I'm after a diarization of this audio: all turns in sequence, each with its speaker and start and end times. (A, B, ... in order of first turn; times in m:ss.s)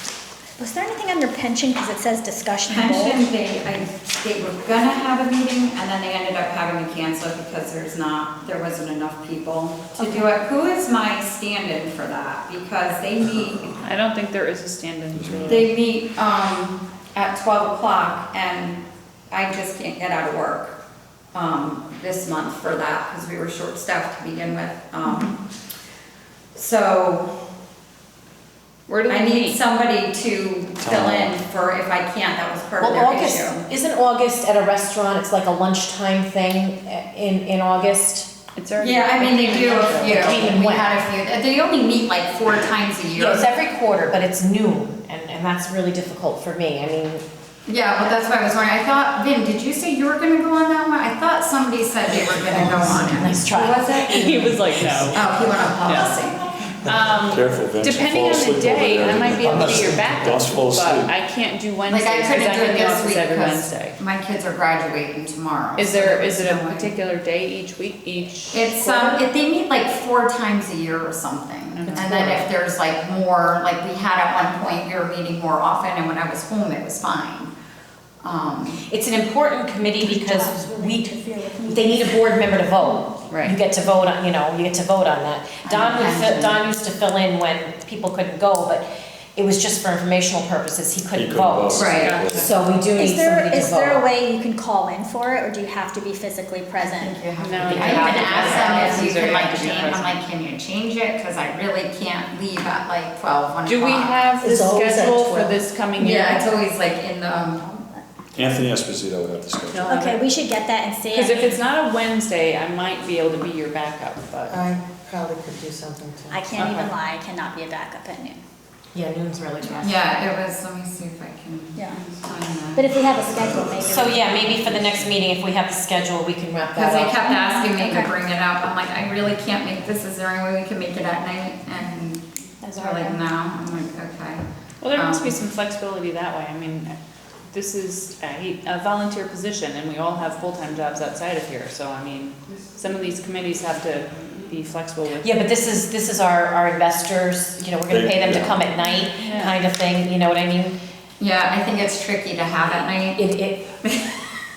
0:00.6-0:03.2 A
0:02.7-0:13.8 B
0:13.8-0:15.7 C
0:15.1-0:15.7 D
0:15.5-0:20.8 B
0:21.3-0:25.4 B
0:26.5-0:27.3 B
0:28.9-0:29.6 C
0:29.1-0:33.6 B
0:30.8-0:31.3 D
0:32.8-0:38.3 E
0:38.6-0:40.5 C
0:38.8-0:43.4 B
0:40.0-0:41.0 E
0:43.1-0:47.2 E
0:47.7-0:54.4 B
0:52.2-0:54.5 E
0:53.9-0:55.2 C
0:55.1-0:56.5 B
0:55.9-0:56.2 C
0:56.7-1:04.0 C
0:57.3-1:01.1 D
0:59.4-1:00.4 F
1:01.9-1:06.9 B
1:05.8-1:09.3 C
1:08.5-1:17.5 B
1:11.8-1:12.1 C
1:12.0-1:12.5 E
1:18.2-1:18.8 B
1:18.9-1:34.1 E
1:20.0-1:22.2 A
1:23.3-1:23.6 C
1:25.6-1:26.6 B
1:31.1-1:32.5 D
1:31.7-1:32.2 B
1:31.8-1:32.5 C
1:33.0-1:37.2 A
1:36.8-1:44.2 B
1:37.3-1:40.2 C
1:37.6-1:38.9 E
1:38.4-1:39.6 A
1:43.6-1:46.5 C
1:44.5-1:45.5 E
1:44.5-1:45.4 F
1:46.0-1:47.6 B
1:47.6-1:48.0 A
1:48.3-1:49.9 D
1:49.7-1:50.2 C
1:49.8-1:51.6 A
1:51.1-1:54.6 C
1:54.6-1:56.4 F
1:56.3-1:58.4 A
1:56.6-1:56.9 C
1:58.9-2:00.0 E
1:59.8-2:03.8 B
2:02.8-2:04.8 A
2:03.8-2:07.2 E
2:06.7-2:15.4 B
2:07.2-2:08.1 A
2:12.6-2:13.2 A
2:14.8-2:17.0 C
2:17.5-2:25.4 C
2:25.2-2:30.8 E
2:27.9-2:28.6 D
2:29.1-2:29.6 C
2:31.2-2:33.2 B
2:33.1-2:33.7 E
2:33.8-2:34.2 B